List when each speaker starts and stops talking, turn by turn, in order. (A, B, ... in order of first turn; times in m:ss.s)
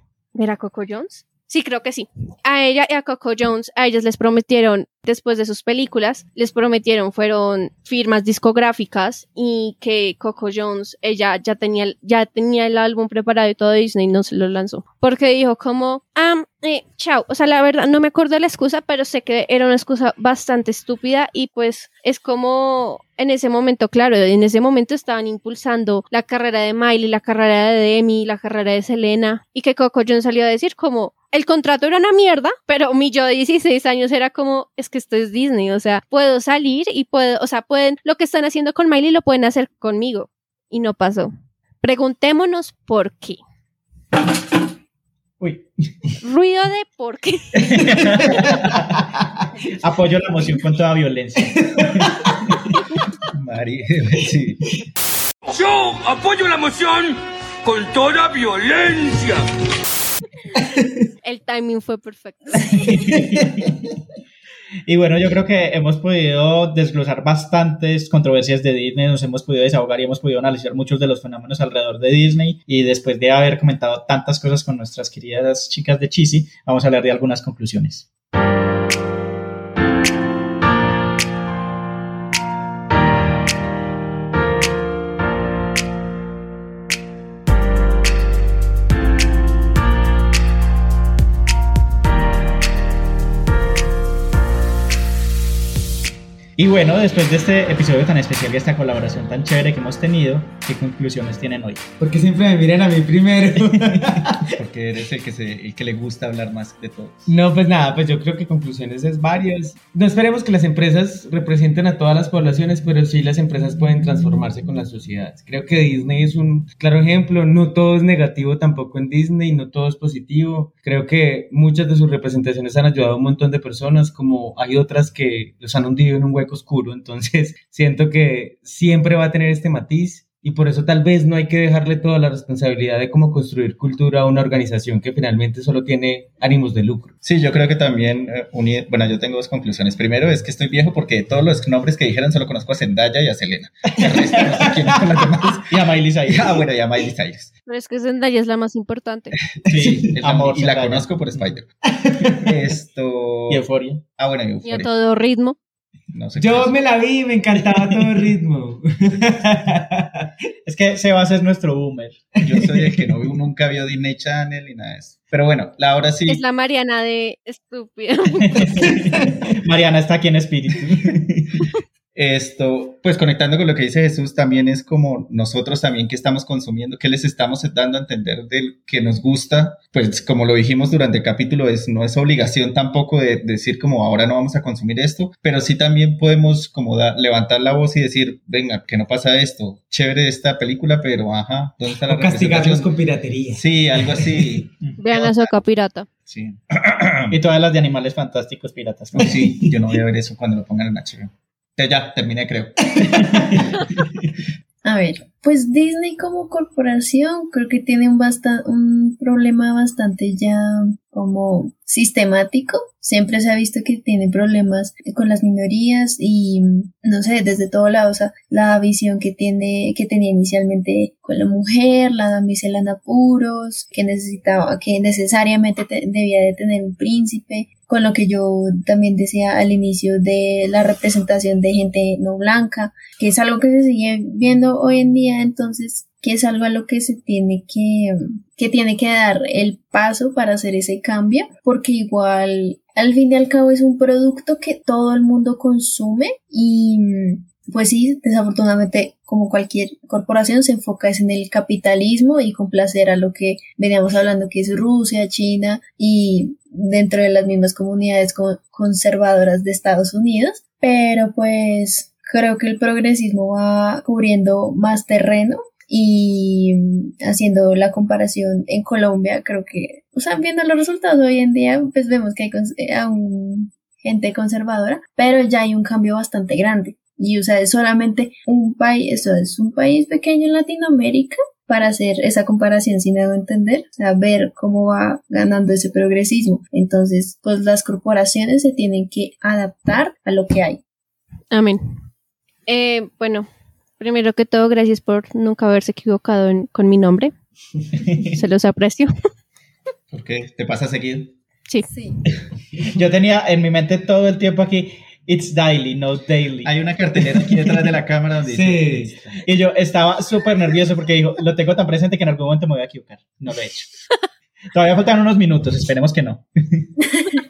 0:00.4-0:43.4 A
0:45.4-0:45.7 B
0:46.2-0:47.6 A
0:47.6-0:48.9 B
0:49.7-0:52.3 B
0:51.6-0:52.3 C
0:53.3-0:54.7 D
0:55.5-0:59.4 E
1:01.2-1:03.0 A
1:02.8-1:03.8 B
1:04.9-1:18.1 B
1:36.6-1:41.8 B
1:42.0-1:44.5 C
1:43.7-1:44.2 B
1:44.5-1:47.3 D
1:47.3-2:17.2 C
2:17.2-2:25.6 D
2:24.0-2:25.6 C
2:25.7-2:26.6 B
2:26.3-2:27.5 D
2:27.7-2:29.3 A
2:29.6-2:31.7 D
2:29.7-2:31.4 B
2:29.8-2:30.1 C
2:32.0-2:32.5 C
2:32.4-2:33.6 D
2:33.5-2:34.0 B
2:34.2-2:34.9 D
2:34.6-2:35.6 A
2:36.1-2:36.8 D
2:36.4-2:40.3 C
2:40.6-2:42.3 B
2:42.4-2:46.4 D
2:42.6-2:43.1 C
2:46.3-2:48.4 A
2:48.4-2:51.7 B
2:52.2-3:12.9 D
3:12.0-3:14.6 C
3:13.5-3:15.2 D
3:15.0-3:16.1 A
3:16.3-3:16.6 B
3:16.8-3:17.3 D
3:17.3-3:19.5 B
3:19.1-3:23.6 D
3:24.8-4:50.8 F
4:51.5-4:51.8 A
4:52.7-4:53.5 A
4:54.0-4:57.3 A
4:58.0-4:58.4 B
4:58.3-4:59.1 A
5:00.1-5:01.4 D
5:01.9-5:02.2 F
5:02.9-5:08.0 B
5:06.6-5:09.4 D
5:08.5-5:09.2 C
5:09.4-5:13.9 B
5:14.7-5:16.9 B